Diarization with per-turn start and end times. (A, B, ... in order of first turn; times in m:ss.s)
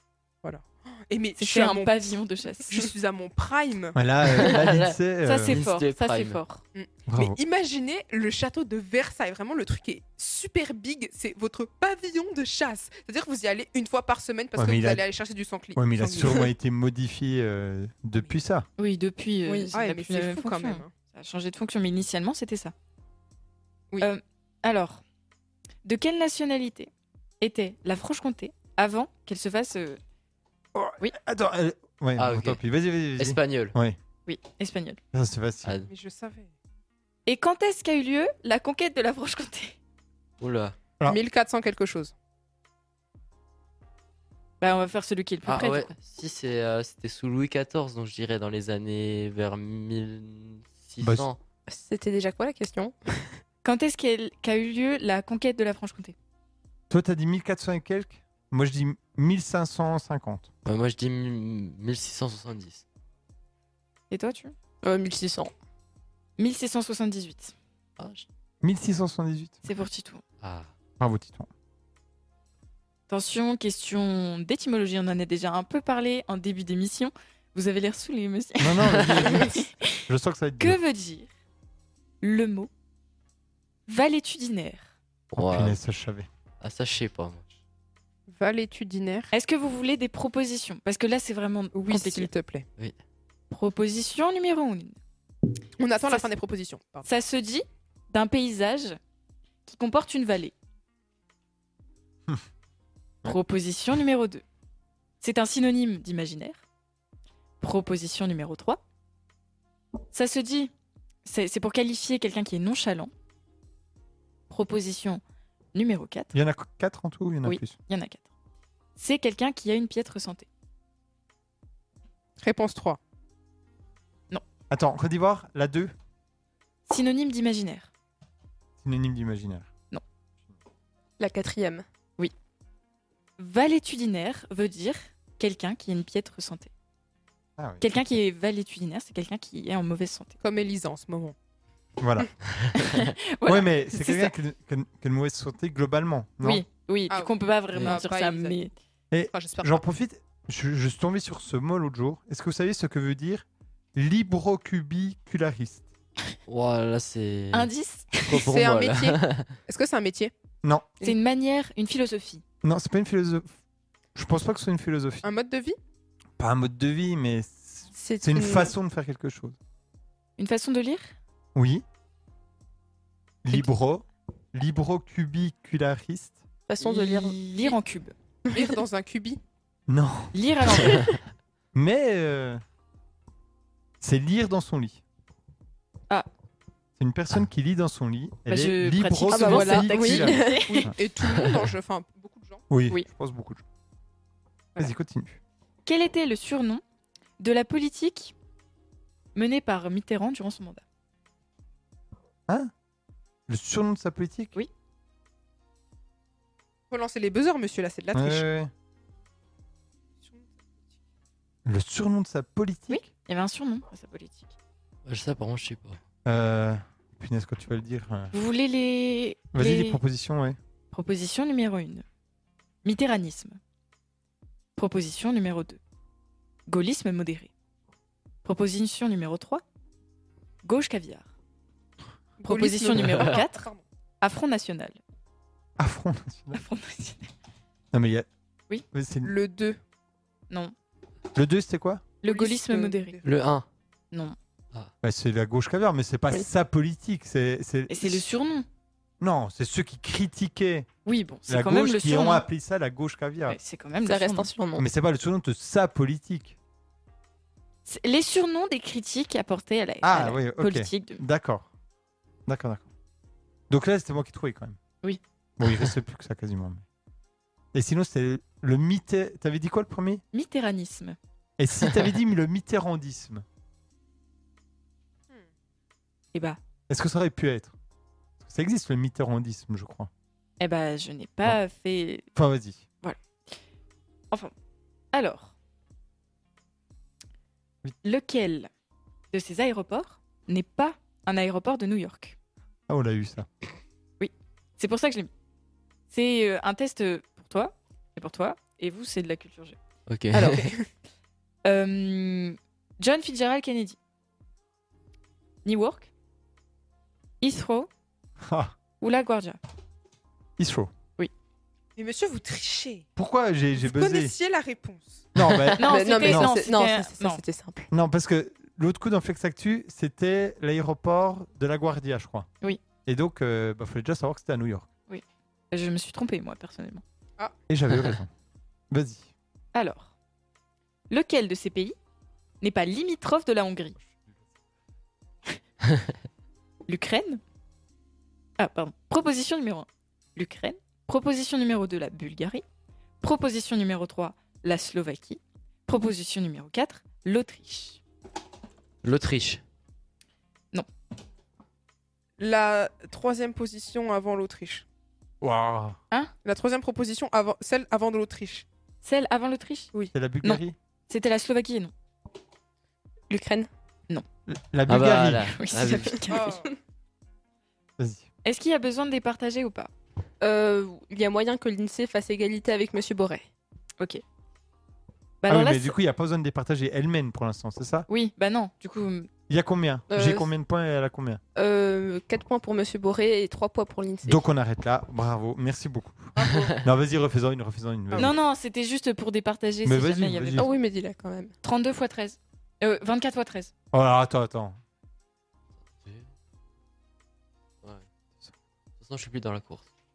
0:00.4-0:02.1 A
0:01.4-0:02.9 B
0:02.7-0:04.0 A
0:03.9-0:05.6 C
0:04.3-0:04.9 D
0:05.2-0:06.6 B
0:05.4-0:06.4 D
0:06.7-0:16.5 A
0:07.1-0:07.4 C
0:14.6-0:15.0 C
0:15.7-0:18.6 C
0:18.8-0:22.7 B
0:19.4-0:19.7 E
0:19.7-0:20.9 A
0:24.0-0:25.0 B
0:25.8-0:26.9 B
0:27.4-0:30.0 B
0:30.7-0:34.0 C
0:32.2-0:32.6 D
0:33.2-0:33.7 D
0:34.2-0:35.0 B
0:35.1-0:35.7 C
0:35.9-0:36.5 A
0:37.2-0:39.8 B
0:40.4-0:40.8 D
0:41.0-0:42.1 A
0:44.6-0:45.9 B
0:45.4-0:51.4 D
0:51.0-0:51.3 C
0:51.7-0:53.4 E
0:53.6-0:56.1 B
0:56.9-1:00.5 C
1:00.6-1:02.8 D
1:04.1-1:04.5 B
1:04.8-1:05.5 E
1:06.4-1:07.5 B
1:08.0-1:08.3 D
1:08.6-1:09.6 C
1:09.6-1:10.2 B
1:10.4-1:10.7 D
1:11.0-1:11.5 C
1:13.1-1:20.0 B
1:18.6-1:20.8 C
1:20.6-1:21.3 B
1:22.2-1:22.7 B
1:23.9-1:24.9 B
1:25.3-1:25.8 D
1:25.3-1:26.3 C
1:26.6-1:27.4 D
1:28.3-1:29.3 A
1:29.3-1:32.3 B
1:31.7-1:32.7 A
1:33.5-1:35.0 B
1:35.8-1:37.1 A
1:37.0-1:39.0 B
1:39.6-1:40.5 B
1:43.2-1:44.4 B
1:45.2-1:46.6 B
1:47.6-1:48.8 B
1:50.1-1:50.7 B
1:51.2-1:53.1 B
1:54.5-1:55.2 B
1:55.7-1:56.3 B
1:56.3-1:57.8 C
1:57.4-1:58.2 B
1:59.0-2:00.5 B
2:02.4-2:03.0 A
2:04.7-2:05.9 C
2:06.9-2:07.9 B
2:08.8-2:09.7 C
2:11.2-2:11.8 E
2:13.4-2:16.7 B
2:17.6-2:17.8 C
2:17.8-2:20.3 B
2:20.4-2:21.4 A
2:22.0-2:22.3 C
2:22.8-2:24.3 B
2:23.4-2:26.6 C
2:26.4-2:28.7 B
2:27.1-2:28.6 A
2:29.1-2:35.9 C
2:29.3-2:29.8 A
2:36.5-2:37.7 D
2:37.5-2:38.4 B
2:38.3-2:39.6 D
2:38.3-2:40.3 A
2:40.6-2:40.9 C
2:41.0-2:42.4 B
2:42.6-2:43.5 C
2:44.1-2:45.2 C
2:45.2-2:45.8 A
2:46.4-2:49.6 C
2:47.9-2:48.7 E
2:50.4-2:51.1 B
2:51.5-2:51.8 C
2:53.4-2:56.4 C
2:56.7-2:57.4 E
2:56.8-2:58.1 B
2:58.5-2:58.7 E
2:58.5-2:59.4 A
2:59.9-3:00.3 C
3:00.3-3:01.1 B
3:01.7-3:02.6 C
3:04.0-3:05.0 C
3:07.0-3:10.9 C
3:08.5-3:10.9 B
3:09.3-3:10.9 E
3:10.8-3:12.6 A
3:12.7-3:13.6 C
3:14.8-3:15.4 C
3:15.8-3:16.8 B
3:17.4-3:18.3 B
3:19.3-3:20.8 B
3:23.5-3:24.6 C
3:26.9-3:28.4 A
3:28.1-3:28.7 C
3:30.2-3:30.5 A
3:31.6-3:33.1 C
3:32.9-3:34.5 B
3:35.0-3:36.0 D
3:36.2-3:38.3 C
3:38.3-3:40.0 B
3:39.5-3:40.6 C
3:40.9-3:42.0 B
3:42.8-3:43.6 B
3:44.8-3:45.8 B
3:46.7-3:47.5 B
3:48.4-3:49.6 B
3:50.6-3:51.3 B
3:52.4-3:53.8 A
3:52.4-3:53.7 B
3:52.9-3:53.4 D
3:54.2-3:55.0 B
3:55.8-3:56.6 C
3:56.5-3:57.3 B
3:57.9-3:58.3 C
3:58.9-3:59.3 C
3:59.2-3:59.8 A
4:01.3-4:02.0 C
4:02.2-4:03.2 B
4:02.2-4:03.3 A
4:03.2-4:03.6 D
4:04.1-4:04.4 B
4:05.0-4:08.2 C
4:07.9-4:08.7 B
4:09.2-4:10.9 C
4:11.0-4:12.4 B
4:11.5-4:13.6 C
4:13.5-4:14.5 B
4:14.0-4:14.9 E
4:14.8-4:16.6 C
4:17.8-4:21.2 B
4:20.0-4:21.7 C
4:22.5-4:22.9 C
4:23.7-4:24.8 C
4:25.6-4:26.8 C
4:27.7-4:30.2 C
4:30.3-4:31.2 B
4:31.6-4:33.4 C
4:36.3-4:36.6 B
4:36.9-4:37.7 C
4:38.4-4:40.1 C
4:40.6-4:42.3 B
4:42.4-4:42.8 C
4:43.0-4:43.5 B
4:45.1-4:45.5 B
4:48.0-4:48.7 B
4:49.3-4:52.4 B
4:52.9-4:53.5 C
4:54.2-4:55.3 B
4:56.1-4:59.8 B
5:00.1-5:00.7 D
5:00.3-5:00.7 E
5:01.6-5:04.0 B
5:05.6-5:06.1 B
5:07.4-5:07.9 B
5:08.4-5:08.7 C
5:09.0-5:09.6 B
5:10.6-5:10.9 C
5:12.0-5:13.1 A
5:13.2-5:14.3 C
5:13.8-5:15.3 A
5:15.3-5:16.5 C
5:15.8-5:17.4 B
5:15.8-5:17.9 E
5:17.9-5:22.5 C
5:23.0-5:24.9 C
5:25.1-5:27.0 B
5:27.7-5:28.3 C
5:28.9-5:29.3 C
5:29.7-5:30.1 B
5:31.1-5:32.0 B
5:32.6-5:34.0 B
5:36.9-5:37.4 B
5:38.6-5:42.6 B
5:43.2-5:48.0 B
5:49.0-5:49.6 D
5:52.4-5:54.8 A
5:55.4-5:56.0 C
5:56.4-5:58.6 A
5:59.0-6:01.9 B
6:00.1-6:00.8 C
6:03.3-6:03.7 E
6:04.5-6:05.5 C
6:04.9-6:06.3 D
6:05.4-6:06.6 B
6:06.3-6:06.7 A
6:06.4-6:06.7 E
6:08.0-6:08.3 C
6:08.4-6:09.9 B
6:10.4-6:13.4 E
6:15.4-6:16.0 B
6:15.5-6:18.1 C
6:18.1-6:19.3 B
6:19.5-6:21.4 C
6:20.1-6:20.5 E
6:21.6-6:24.4 E
6:24.2-6:28.4 C
6:28.1-6:30.7 B
6:29.8-6:30.7 C
6:30.6-6:31.5 E
6:31.6-6:33.7 B
6:33.9-6:34.8 C
6:36.0-6:36.3 D
6:39.0-6:39.9 D